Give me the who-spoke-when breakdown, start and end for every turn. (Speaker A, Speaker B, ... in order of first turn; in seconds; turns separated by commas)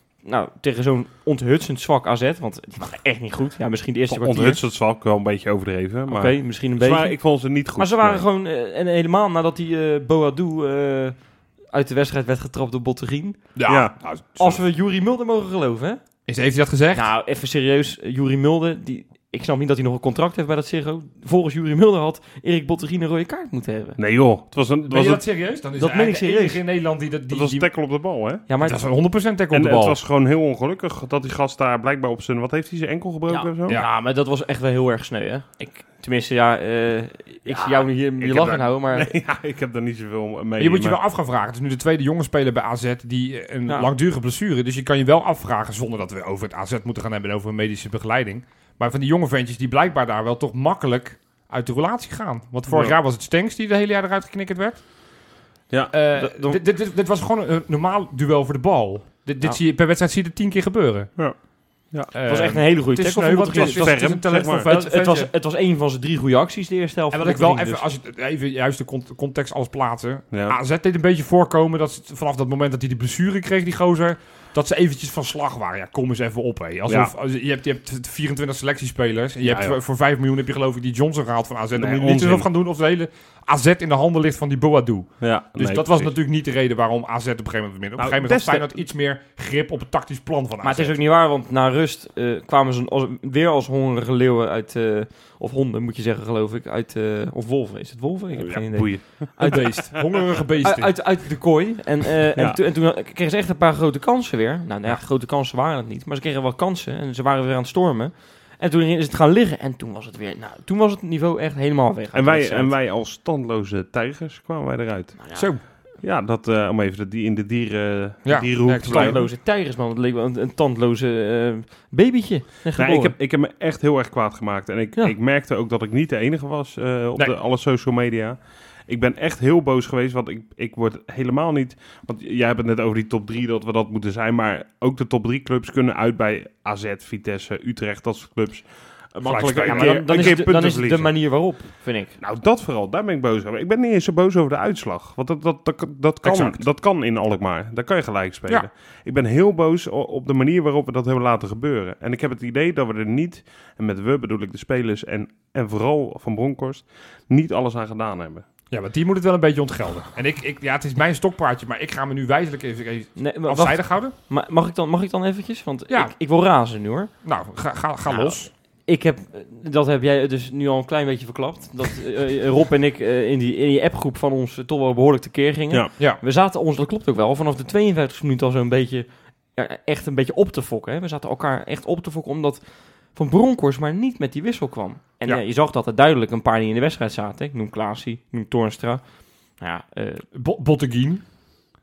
Speaker A: 0.2-4.6, Speaker B: 4.1-8.2, Speaker A: 6.1-13.4, Speaker C: 13.6-14.6, Speaker B: 13.7-13.9, Speaker A: 14.4-16.0, Speaker C: 16.3-17.1, Speaker A: 16.9-24.0, Speaker B: 24.0-25.2, Speaker C: 24.9-27.7, Speaker A: 25.8-26.6, Speaker B: 27.3-28.4, Speaker A: 28.5-28.8, Speaker C: 28.6-30.0, Speaker B: 29.5-33.8, Speaker A: 33.3-39.1, Speaker C: 38.2-38.6, Speaker B: 38.9-41.0, Speaker C: 40.6-54.9, Speaker B: 52.7-53.0, Speaker C: 55.9-61.1, Speaker A: 56.1-56.6, Speaker C: 62.1-65.3, Speaker A: 62.3-67.8, Speaker B: 63.5-64.7, Speaker C: 67.1-91.0, Speaker B: 70.3-70.6, Speaker B: 76.9-77.1, Speaker B: 79.4-79.8, Speaker B: 81.8-82.5, Speaker B: 85.2-86.1, Speaker B: 88.0-88.8, Speaker A: 90.6-99.8, Speaker B: 98.3-99.7, Speaker C: 99.4-101.0, Speaker A: 100.6-112.7, Speaker B: 112.1-115.3, Speaker A: 115.2-115.5, Speaker C: 115.3-115.6, Speaker B: 116.0-119.2, Speaker C: 118.2-119.3, Speaker A: 118.8-123.2, Speaker B: 122.8-141.2, Speaker C: 139.2-140.1, Speaker A: 139.6-142.2, Speaker B: 142.2-158.4, Speaker C: 146.2-146.6, Speaker C: 158.7-164.1, Speaker A: 163.2-167.1, Speaker C: 167.2-168.5, Speaker A: 168.1-189.0, Speaker A: 189.6-190.2, Speaker C: 190.3-191.2